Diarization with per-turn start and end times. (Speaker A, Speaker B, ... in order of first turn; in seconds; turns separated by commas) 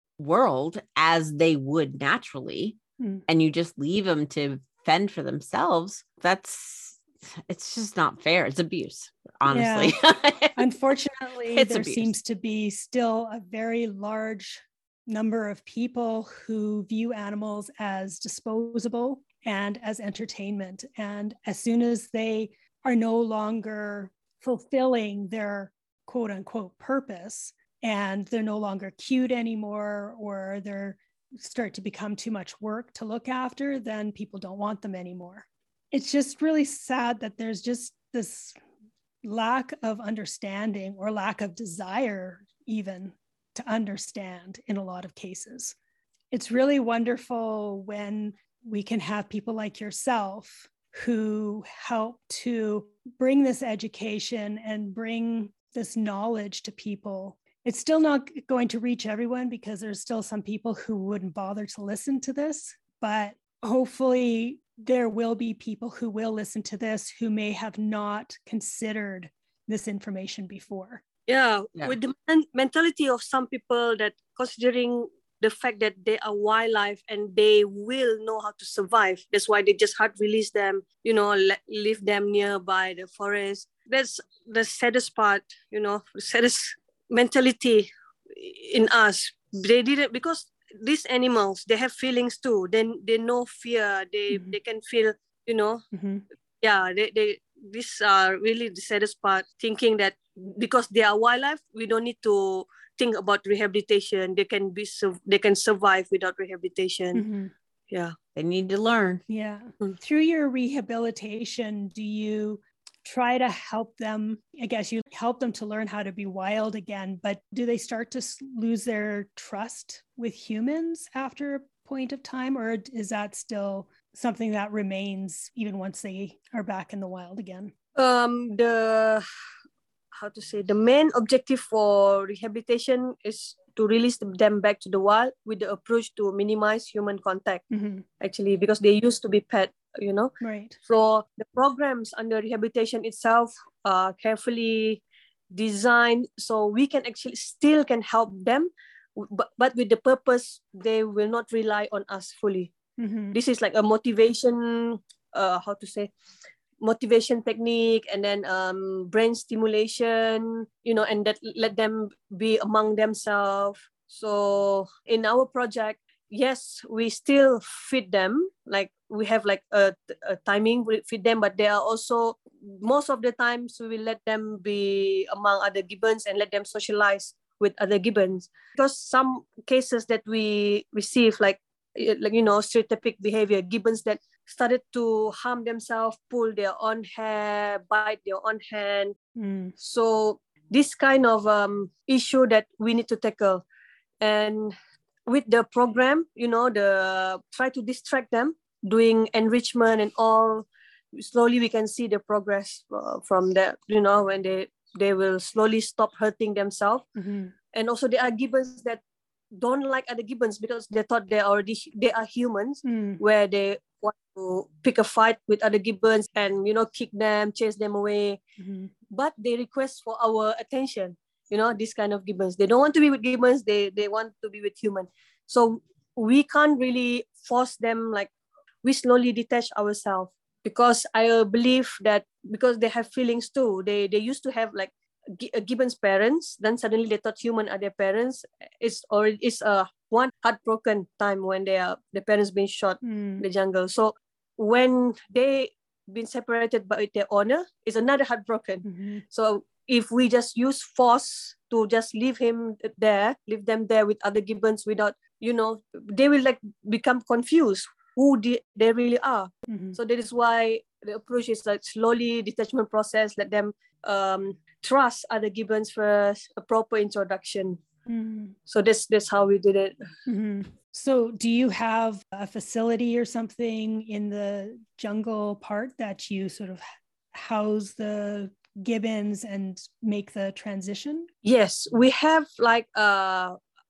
Speaker A: 0.2-10.6, Speaker B: 3.0-3.2, Speaker B: 9.5-9.9, Speaker B: 10.6-38.6, Speaker A: 11.5-12.1, Speaker B: 39.2-45.8, Speaker B: 46.3-71.0, Speaker C: 71.3-95.8, Speaker B: 94.3-94.6, Speaker B: 95.9-96.2, Speaker C: 96.6-107.2, Speaker B: 107.1-107.5, Speaker C: 107.9-108.1, Speaker A: 108.4-109.2, Speaker B: 109.3-127.7, Speaker C: 128.0-129.2, Speaker C: 130.2-137.6, Speaker B: 137.7-138.1, Speaker C: 138.2-140.3, Speaker B: 140.4-140.8, Speaker C: 140.9-145.0, Speaker C: 145.5-152.7, Speaker B: 153.0-153.4, Speaker C: 153.3-156.1, Speaker C: 156.8-189.2, Speaker B: 189.4-189.7, Speaker C: 189.8-193.6, Speaker C: 194.2-194.8, Speaker C: 195.2-207.1, Speaker B: 207.2-207.5, Speaker C: 207.7-209.0, Speaker C: 209.5-218.4, Speaker B: 212.8-213.2, Speaker B: 218.6-218.9, Speaker C: 219.1-228.3, Speaker C: 228.8-267.8, Speaker B: 243.0-243.4, Speaker B: 248.8-249.2, Speaker B: 259.7-260.0, Speaker B: 268.1-268.6, Speaker C: 268.7-269.9, Speaker B: 270.3-281.3, Speaker C: 281.4-283.6